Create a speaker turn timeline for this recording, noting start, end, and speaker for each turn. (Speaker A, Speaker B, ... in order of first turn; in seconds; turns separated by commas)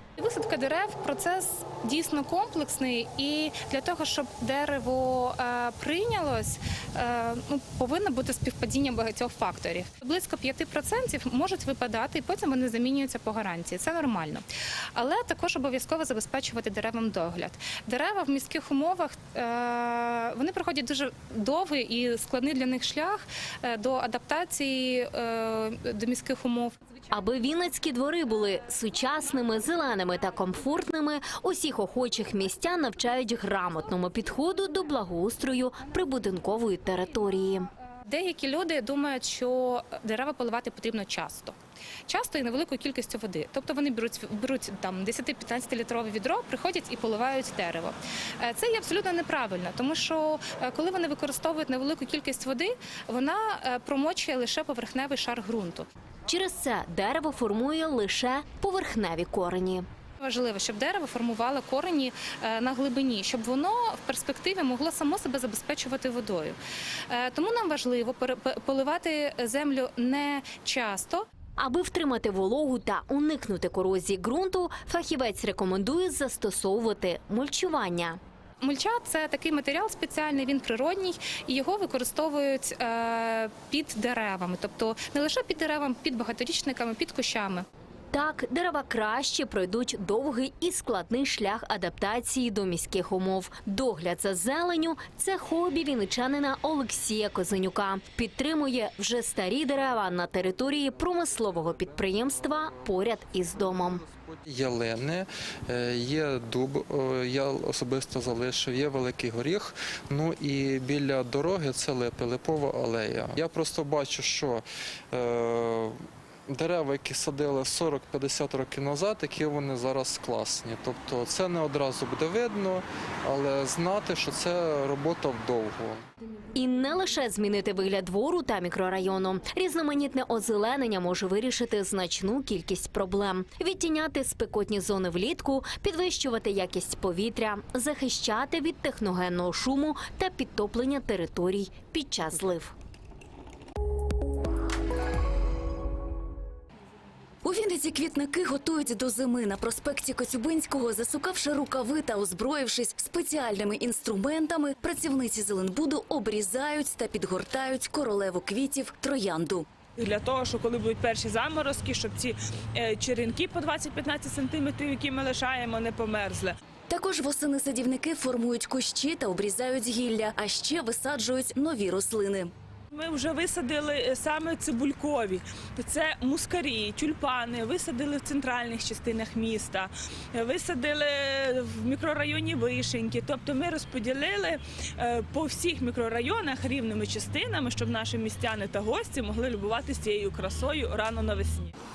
Speaker A: 0.2-14.4, Speaker A: 14.9-26.8, Speaker B: 27.1-37.6, Speaker A: 38.0-41.5, Speaker A: 42.1-55.9, Speaker B: 56.3-59.8, Speaker A: 60.2-66.6, Speaker A: 67.1-71.2, Speaker B: 71.6-78.2, Speaker A: 78.6-87.6, Speaker B: 88.1-103.2, Speaker C: 101.0-116.0, Speaker C: 116.5-126.0, Speaker B: 126.5-142.7, Speaker D: 147.4-159.7, Speaker E: 160.0-166.5, Speaker D: 166.9-172.5, Speaker E: 172.9-191.7